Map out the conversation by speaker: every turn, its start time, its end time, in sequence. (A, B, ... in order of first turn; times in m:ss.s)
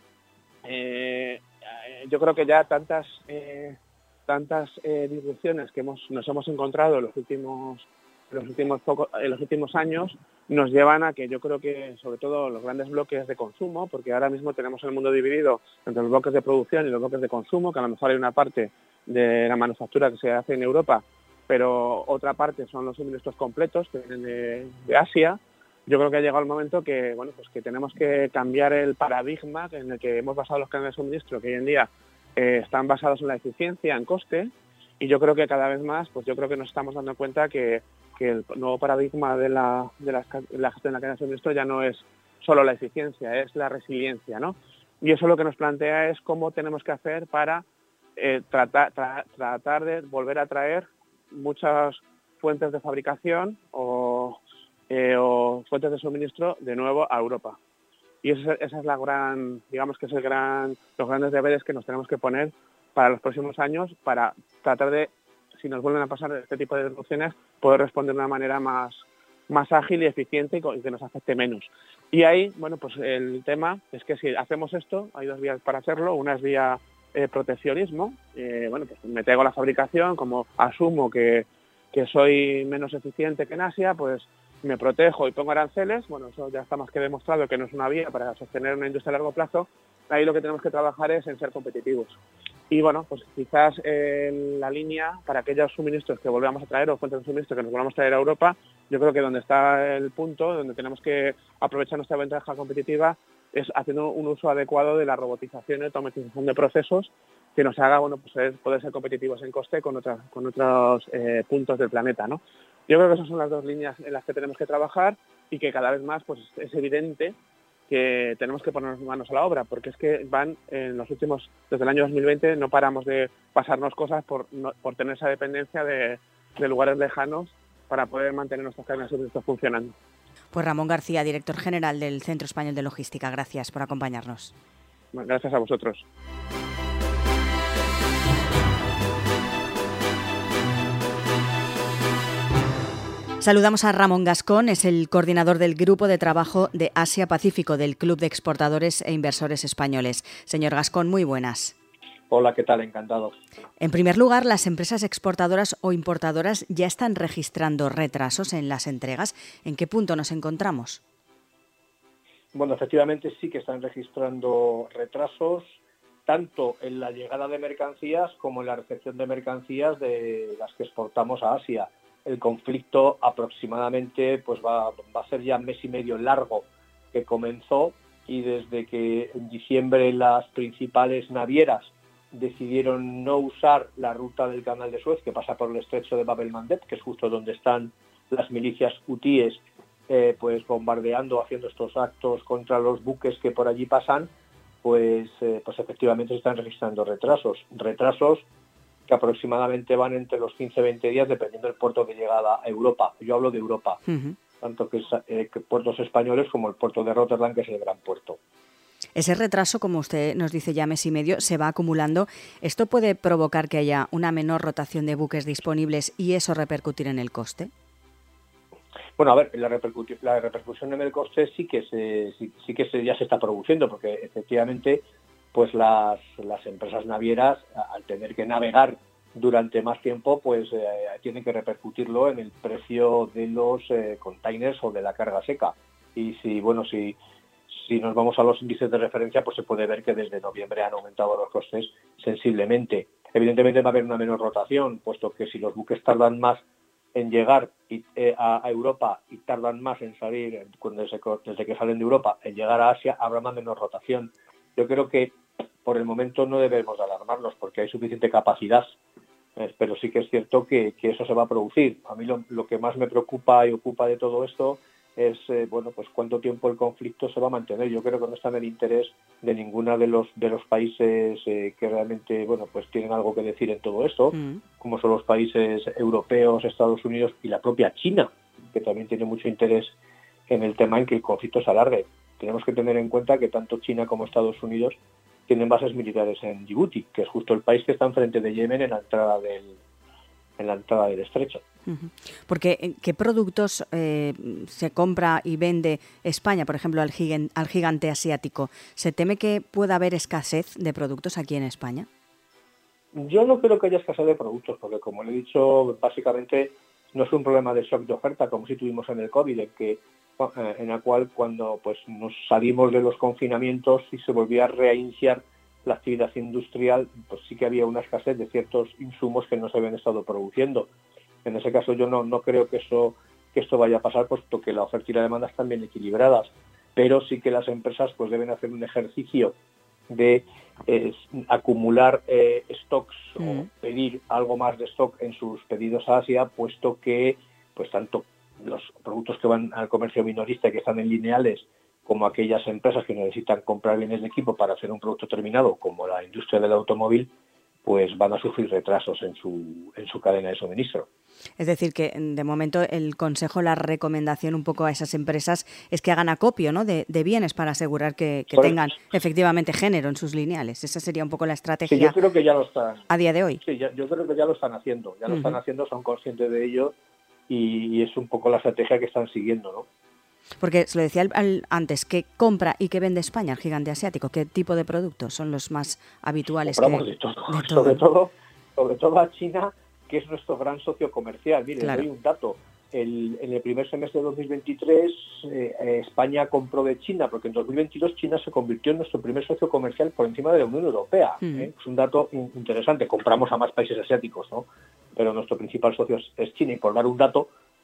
0:00.6-0:47.6 A
0:48.2-0:54.4 A
0:54.9-0:57.6 A
0:58.2-1:32.2 A
1:32.7-1:57.3 A
1:57.9-2:09.9 A
2:10.5-2:14.5 B
2:15.1-2:16.0 A
2:23.4-2:31.7 B
2:32.3-2:33.4 C
2:33.8-2:41.0 B
2:42.5-3:14.3 C
3:14.8-3:18.4 C
3:19.1-3:24.0 C
3:24.1-3:24.4 B
3:24.6-3:28.4 C
3:29.2-3:37.7 B
3:39.2-3:57.2 C
3:57.7-4:06.6 C
4:07.1-4:19.0 C
4:19.6-4:39.9 C
4:34.3-4:34.6 B
4:40.5-4:45.0 C
4:45.5-4:49.8 C
4:50.6-4:51.6 C
4:51.8-5:02.1 B
5:03.1-5:20.9 C
5:21.4-5:29.5 C
5:30.1-5:47.3 C
5:47.8-5:51.1 C
5:51.6-6:02.2 B
6:01.8-6:03.1 C
6:03.1-6:03.6 B
6:03.6-6:06.9 C
6:05.3-6:05.6 B
6:07.5-6:09.9 C
6:10.6-6:18.0 B
6:16.6-6:37.5 C
6:21.8-6:22.0 B
6:31.4-6:31.7 B